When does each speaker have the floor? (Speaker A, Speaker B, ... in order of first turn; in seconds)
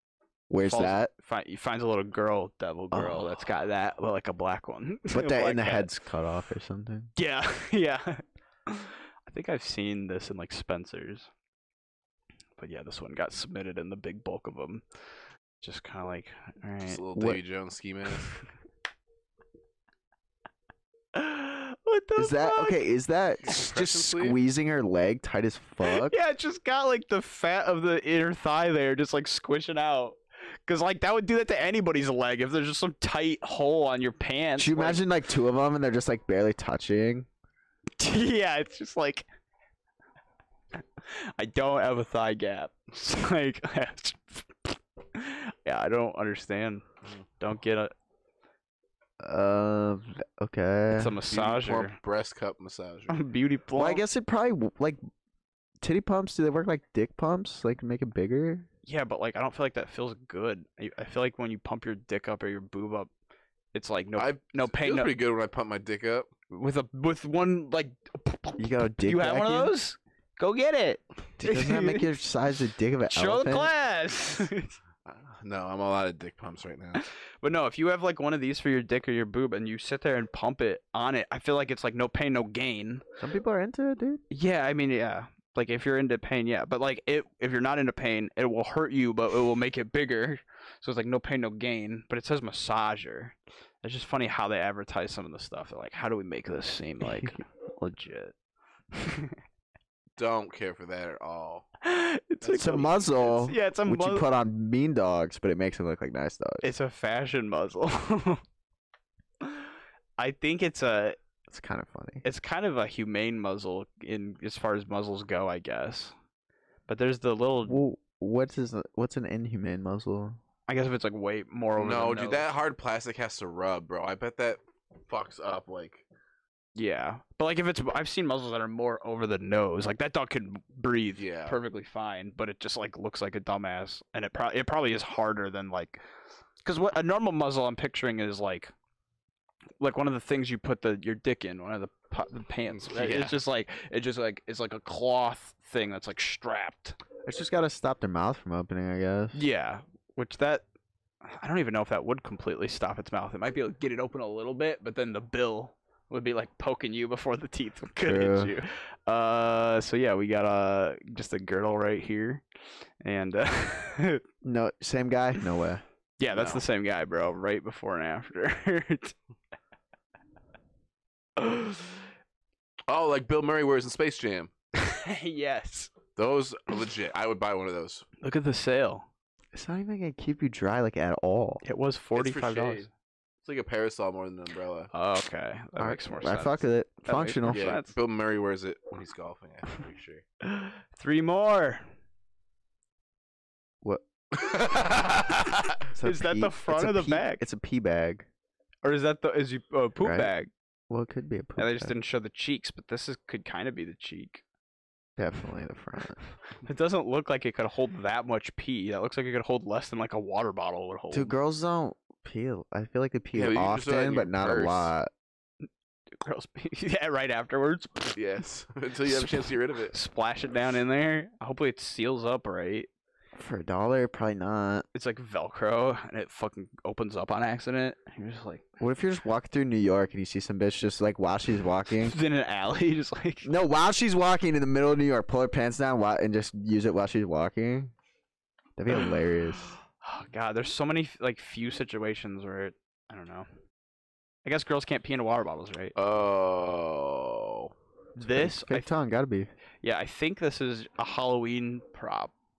Speaker A: 0.5-1.1, 2.9-3.3, 5.1-7.1, 17.1-17.4, 22.2-26.1, 34.6-37.3, 49.2-51.1, 53.8-55.0, 55.8-58.7, 68.6-69.7, 71.4-73.7, 83.2-84.2, 102.6-106.7, 111.5-112.2, 117.7-120.4, 147.2-149.4, 158.1-158.5, 164.4-165.8, 179.5-181.6, 185.8-187.6, 195.9-198.3, 200.0-200.3, 200.9-201.9, 205.2-206.2, 211.1-215.1, 223.3-224.8, 228.8-232.2, 233.4-237.9, 238.8-239.8, 248.2-249.5
Speaker B: 0.6-5.9, 7.2-11.3, 12.6-14.8, 15.6-17.0, 21.1-22.8, 25.8-35.0, 38.0-39.2, 41.0-46.8, 47.4-47.9, 50.9-52.0, 53.1-54.0, 58.9-63.1, 63.7-65.1, 66.5-72.1, 73.1-74.7, 77.0-83.0, 84.3-98.3, 98.9-99.3, 101.8-104.3, 106.6-108.4, 109.4-111.2, 112.2-116.1, 116.9-117.8, 120.7-122.5, 126.7-136.0, 136.6-138.7, 139.8-147.0, 149.3-150.6, 151.2-162.4, 163.0-164.2, 166.2-169.1, 171.4-172.0, 174.8-175.9, 178.2-179.1, 181.6-182.9, 184.9-187.9, 190.4-191.8, 196.0-197.4, 198.8-200.5, 201.6-204.4, 206.6-211.3, 216.2-218.2, 219.9-222.9, 224.9-228.6, 232.0-233.5, 240.0-243.5, 244.4-245.9, 248.2-248.9, 249.8-252.3
Speaker C: 16.9-18.3, 23.4-24.4, 51.3-53.2, 64.2-66.3, 75.0-77.0, 100.2-101.7, 102.4-102.9, 121.8-126.0, 131.2-131.6, 142.7-143.3, 166.3-166.6, 172.9-174.5, 176.2-178.0, 182.1-182.9, 183.4-184.9, 187.5-190.2, 194.3-195.6, 213.3-214.9, 218.2-219.9, 245.9-247.7